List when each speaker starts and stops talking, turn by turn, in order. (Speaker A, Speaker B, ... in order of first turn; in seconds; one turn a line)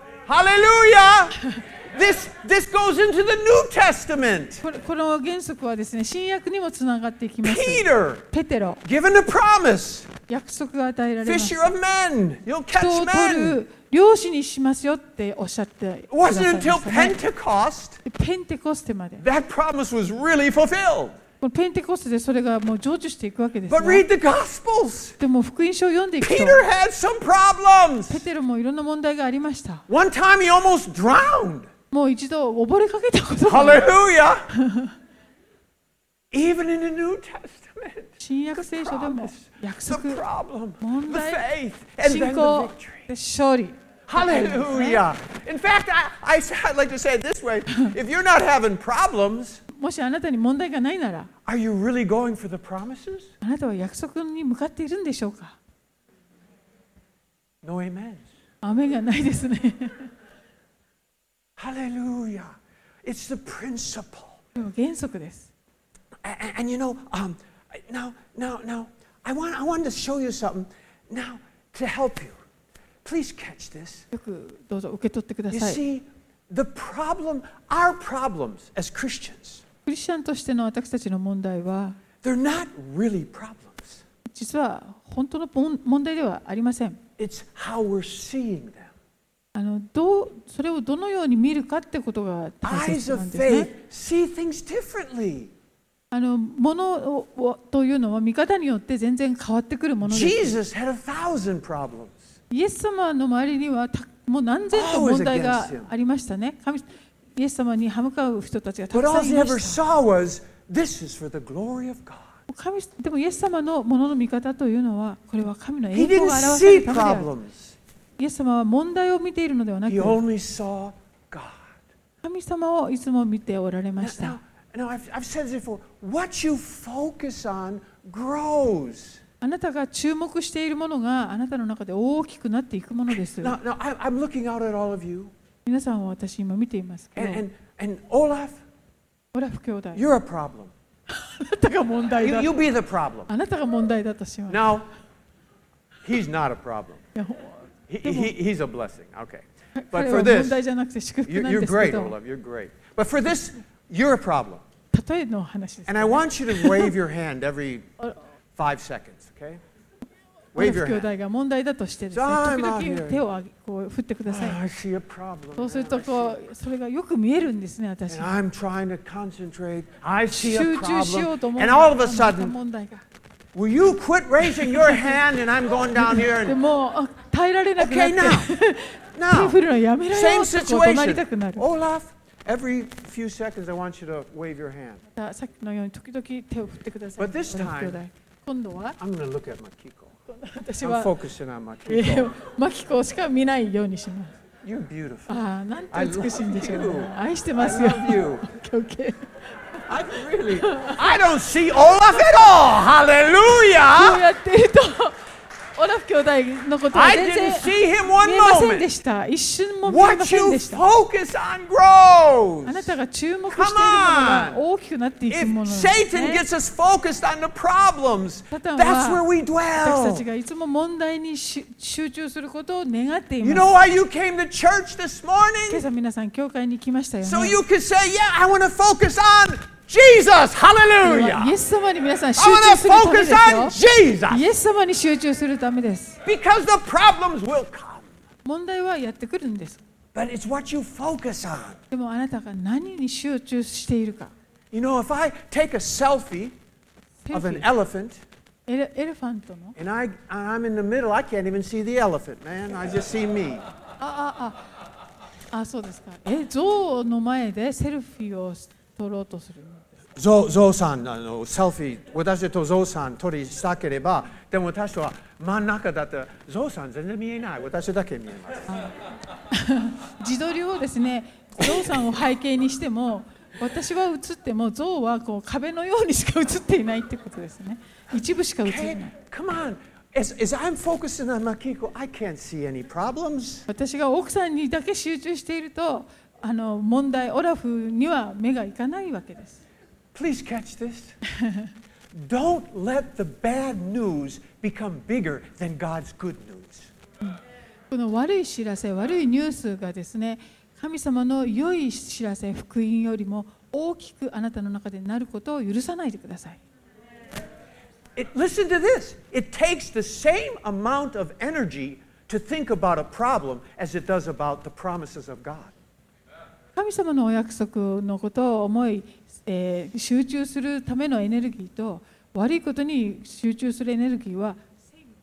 Speaker A: 0.2-4.6
Speaker B: 4.6-8.8
Speaker A: 7.4-8.2
Speaker A: 8.8-10.1
Speaker B: 10.3-11.7
Speaker A: 11.2-13.6
Speaker B: 12.7-17.2
Speaker A: 16.1-18.0
Speaker B: 18.1-19.2
Speaker A: 19.2-21.2
Speaker B: 21.4-24.1
Speaker A: 23.7-25.2
Speaker B: 25.2-26.6
Speaker A: 26.2-28.2
Speaker B: 28.1-29.9
Speaker A: 29.9-31.7
Speaker B: 31.9-33.9
Speaker A: 33.5-34.5
Speaker B: 34.5-35.0
Speaker A: 36.3-43.1
Speaker B: 38.2-40.2
Speaker B: 40.8-41.5
Speaker B: 42.0-45.0
Speaker A: 44.1-49.6
Speaker B: 49.7-51.3
Speaker A: 51.5-53.3
Speaker B: 53.4-55.6
Speaker A: 57.6-58.2
Speaker B: 58.6-60.1
Speaker A: 61.6-62.5
Speaker A: 63.0-64.4
Speaker B: 64.5-65.5
Speaker A: 66.2-72.4
Speaker A: 73.0-74.1
Speaker B: 74.1-75.8
Speaker A: 75.5-79.6
Speaker B: 79.9-82.0
Speaker A: 82.2-84.0
Speaker B: 84.3-87.0
Speaker A: 87.2-88.9
Speaker B: 89.5-93.7
Speaker A: 92.6-95.5
Speaker B: 96.1-100.6
Speaker A: 100.0-102.3
Speaker B: 102.5-109.8
Speaker A: 104.7-105.9
Speaker A: 108.9-112.3
Speaker B: 112.5-117.3
Speaker A: 115.9-117.8
Speaker B: 118.2-120.2
Speaker A: 119.9-121.8
Speaker B: 122.2-124.4
Speaker A: 124.0-129.2
Speaker B: 129.4-133.6
Speaker A: 133.1-135.3
Speaker B: 135.6-137.4
Speaker A: 137.1-138.6
Speaker B: 139.3-140.1
Speaker A: 139.9-140.7
Speaker B: 141.1-142.6
Speaker A: 142.2-143.3
Speaker B: 143.3-144.8
Speaker A: 144.5-144.9
Speaker A: 146.0-147.0
Speaker B: 147.1-148.3
Speaker A: 147.9-150.6
Speaker B: 149.8-152.2
Speaker A: 151.2-154.6
Speaker B: 154.9-156.9
Speaker A: 155.9-157.9
Speaker A: 158.6-159.6
Speaker B: 160.5-164.6
Speaker A: 160.6-161.1
Speaker A: 162.1-163.2
Speaker A: 164.3-166.4
Speaker B: 165.6-168.3
Speaker A: 168.1-172.6
Speaker B: 170.3-173.0
Speaker A: 173.6-176.6
Speaker B: 174.4-175.2
Speaker B: 175.9-181.6
Speaker A: 177.8-178.6
Speaker A: 179.1-179.6
Speaker A: 180.1-185.0
Speaker B: 185.2-189.0
Speaker A: 187.2-188.0
Speaker A: 189.0-190.2
Speaker B: 190.3-191.1
Speaker A: 190.8-192.3
Speaker B: 191.9-194.3
Speaker A: 194.6-198.4
Speaker B: 195.3-199.3
Speaker A: 199.9-204.2
Speaker B: 200.6-201.1
Speaker B: 203.9-205.2
Speaker B: 205.7-210.8
Speaker A: 206.9-208.9
Speaker A: 209.8-212.9
Speaker B: 212.7-216.4
Speaker A: 213.5-214.6
Speaker A: 215.3-220.2
Speaker B: 218.5-219.2
Speaker B: 219.8-223.7
Speaker A: 223.4-225.8
Speaker B: 225.7-227.6
Speaker A: 227.2-231.6
Speaker B: 231.0-233.8
Speaker A: 232.4-234.4
Speaker B: 234.3-236.2
Speaker A: 236.2-238.1
Speaker B: 238.4-239.8
Speaker A: 240.1-241.8
Speaker B: 241.9-244.3
Speaker A: 244.7-246.6
Speaker B: 247.2-247.7
Speaker A: 247.3-248.2
Speaker B: 248.7-249.8
Speaker A: 249.8-253.6
Speaker B: 254.0-254.6
Speaker B: 255.5-259.9
Speaker A: 260.1-268.8
Speaker B: 269.5-279.1
Speaker A: 278.6-283.7
Speaker B: 283.7-289.6
Speaker A: 290.1-291.2
Speaker B: 291.3-291.7
Speaker A: 292.1-296.9
Speaker B: 297.9-306.6
Speaker A: 308.1-315.7
Speaker B: 316.8-324.9